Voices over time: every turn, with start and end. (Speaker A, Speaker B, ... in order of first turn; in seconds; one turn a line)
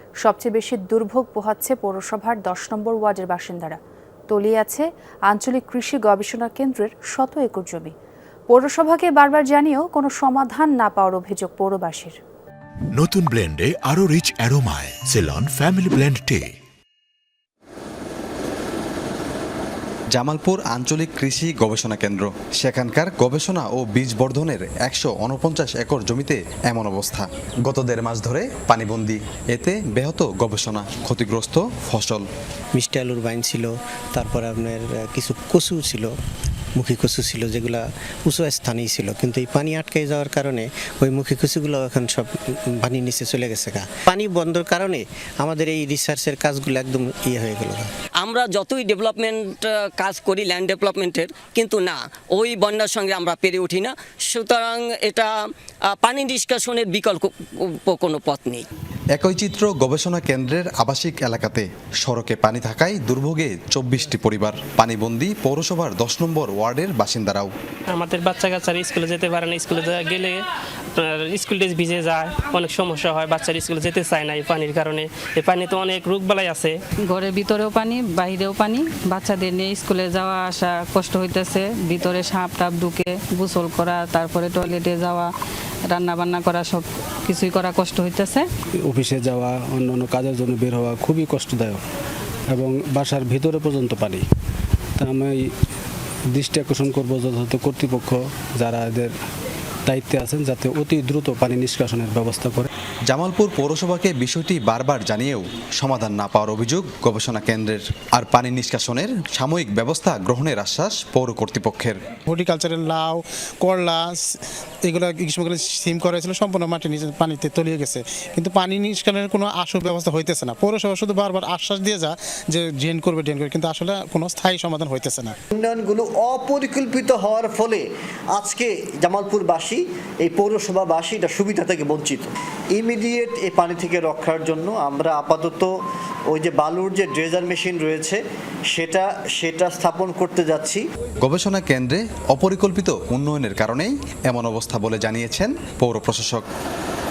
Speaker A: 0.2-3.8
Speaker A: 4.3-7.9
Speaker A: 8.5-12.2
Speaker B: 12.9-16.5
Speaker C: 20.1-32.3
Speaker D: 32.7-36.1
Speaker D: 36.8-47.9
Speaker E: 48.2-55.3
Speaker E: 55.9-57.3
Speaker E: 57.8-58.6
Speaker C: 59.1-67.5
Speaker F: 67.9-70.4
Speaker F: 71.0-76.8
Speaker G: 77.1-85.3
Speaker G: 85.9-88.4
Speaker H: 88.9-91.8
Speaker H: 92.5-94.2
Speaker H: 95.0-95.4
Speaker H: 96.3-99.1
Speaker H: 99.9-102.7
Speaker C: 103.1-112.0
Speaker I: 112.3-114.2
Speaker I: 114.8-125.3
Speaker J: 125.5-135.7
Speaker J: 136.3-140.8
Speaker C: 141.2-146.4